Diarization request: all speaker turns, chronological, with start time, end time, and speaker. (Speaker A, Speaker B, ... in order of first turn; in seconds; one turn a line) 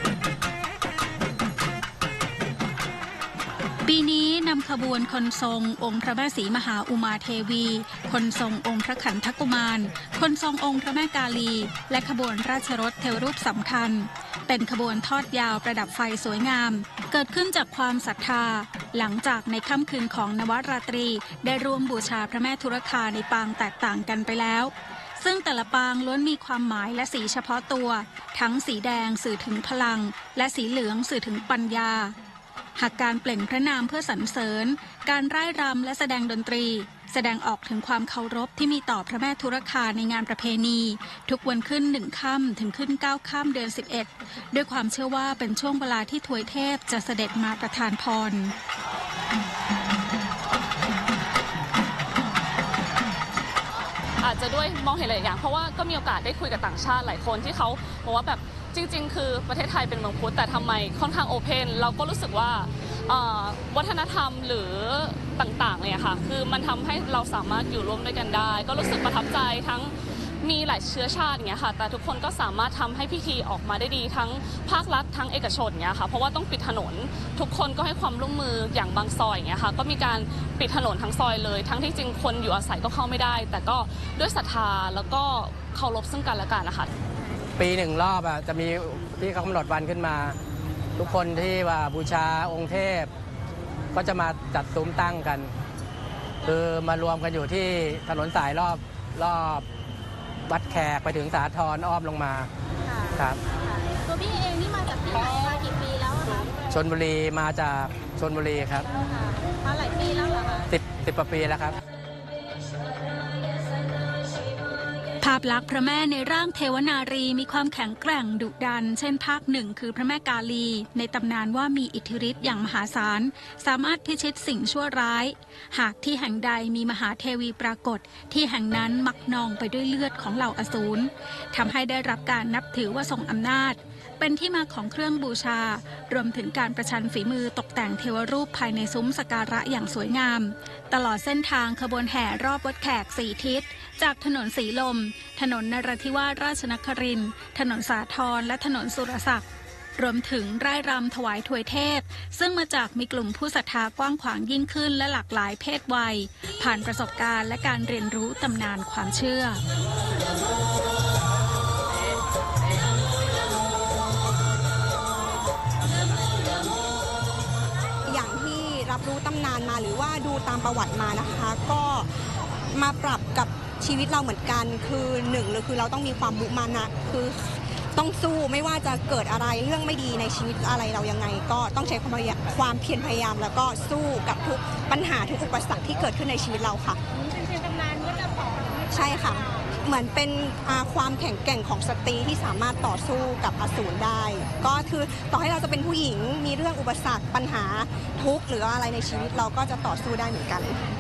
Speaker A: 3.9-32.1
Speaker A: 32.8-48.5
Speaker B: 54.2-86.9
Speaker C: 87.6-90.4
Speaker C: 91.0-93.1
Speaker C: 93.9-95.5
Speaker C: 96.4-99.7
Speaker C: 100.5-102.5
Speaker C: 103.2-103.4
Speaker D: 103.7-106.4
Speaker C: 106.7-108.9
Speaker D: 109.1-110.6
Speaker C: 110.7-111.8
Speaker A: 115.2-149.5
Speaker A: 150.0-159.6
Speaker E: 168.1-172.1
Speaker E: 172.7-187.0
Speaker E: 188.9-200.8